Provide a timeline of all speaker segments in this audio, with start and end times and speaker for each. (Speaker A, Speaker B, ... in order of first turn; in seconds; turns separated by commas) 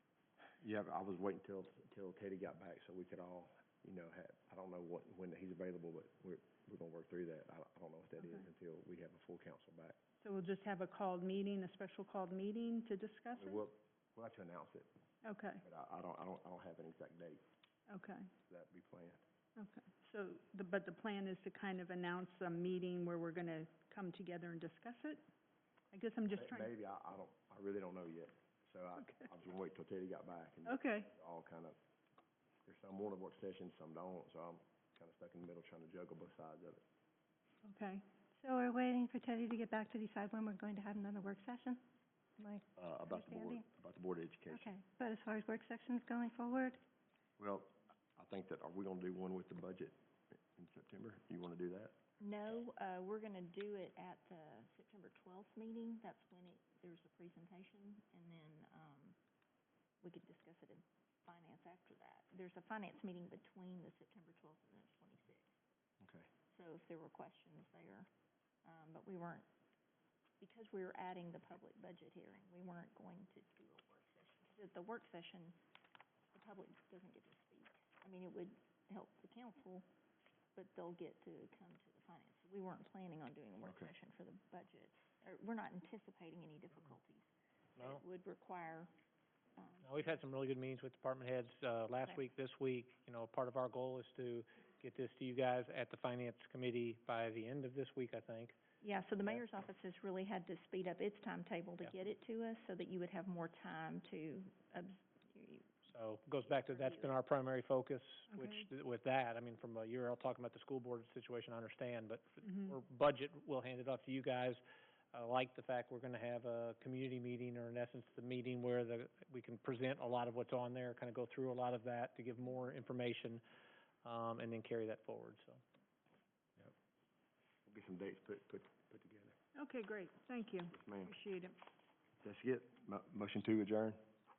Speaker A: 0.6-10.0, Speaker B: 8.2-8.4, Speaker B: 10.2-13.6, Speaker A: 13.3-14.9, Speaker B: 15.2-15.6, Speaker A: 15.6-17.4, Speaker B: 17.9-18.3, Speaker A: 18.5-19.2, Speaker B: 19.6-25.2, Speaker B: 25.9-26.7, Speaker A: 26.3-31.8, Speaker B: 30.6-31.1, Speaker A: 32.6-36.8, Speaker B: 37.6-38.0, Speaker C: 38.4-41.8, Speaker C: 42.4-43.6, Speaker A: 42.8-44.7, Speaker C: 44.5-46.8, Speaker A: 47.4-49.9, Speaker A: 50.5-52.0, Speaker D: 52.2-59.2, Speaker D: 60.0-65.5, Speaker A: 66.0-66.3, Speaker D: 66.5-68.1, Speaker D: 68.6-69.5, Speaker D: 70.4-75.6, Speaker D: 76.3-79.8, Speaker D: 80.5-87.3, Speaker A: 83.6-83.9, Speaker D: 87.8-88.9, Speaker D: 89.6-90.2, Speaker E: 89.8-98.5, Speaker D: 98.8-105.7, Speaker E: 105.9-114.6, Speaker D: 106.5-107.1, Speaker B: 108.3-108.7, Speaker B: 112.4-112.8, Speaker E: 115.1-123.4, Speaker E: 124.0-125.6, Speaker A: 127.7-129.3, Speaker B: 129.6-131.6, Speaker A: 130.7-131.1, Speaker A: 132.2-134.0